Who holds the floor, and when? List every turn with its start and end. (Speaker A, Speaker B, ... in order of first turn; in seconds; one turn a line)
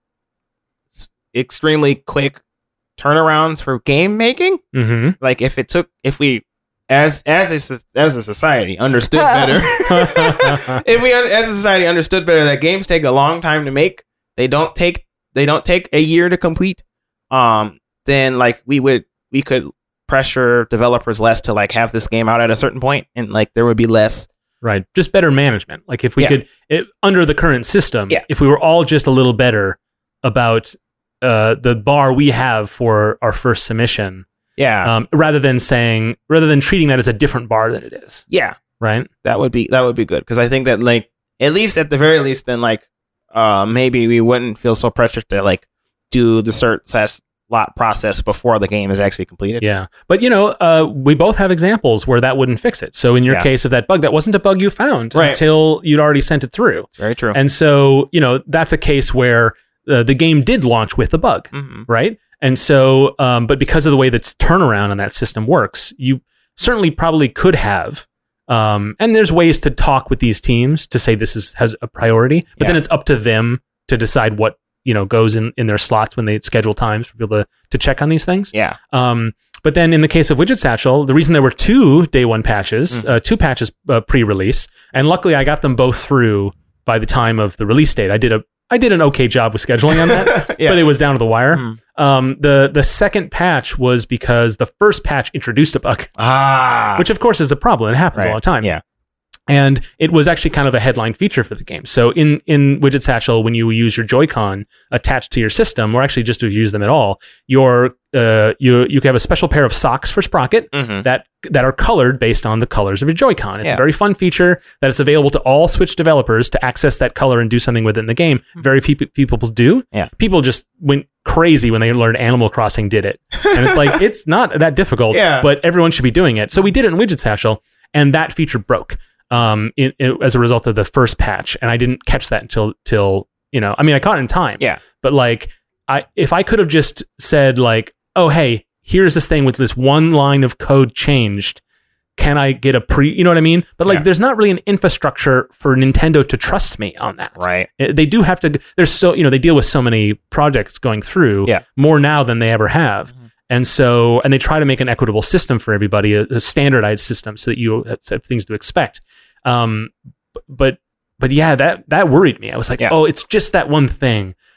Speaker A: 0.9-2.4
Speaker A: 3.0-4.6
Speaker B: 4.7-5.2
Speaker A: 5.2-24.3
Speaker B: 9.9-10.8
Speaker B: 24.6-34.2
Speaker A: 34.6-34.9
Speaker B: 34.8-38.2
Speaker A: 38.3-38.6
Speaker B: 38.8-39.1
Speaker A: 39.2-49.6
Speaker B: 49.6-96.1
Speaker A: 55.1-55.4
Speaker A: 57.0-57.4
Speaker A: 61.5-61.9
Speaker A: 90.0-90.8
Speaker A: 96.2-97.0
Speaker B: 96.9-98.7
Speaker A: 98.1-98.8
Speaker B: 99.5-141.6
Speaker A: 110.7-111.0
Speaker A: 123.5-124.0
Speaker A: 125.1-125.5
Speaker B: 142.2-159.9
Speaker A: 147.4-147.7
Speaker B: 160.5-164.3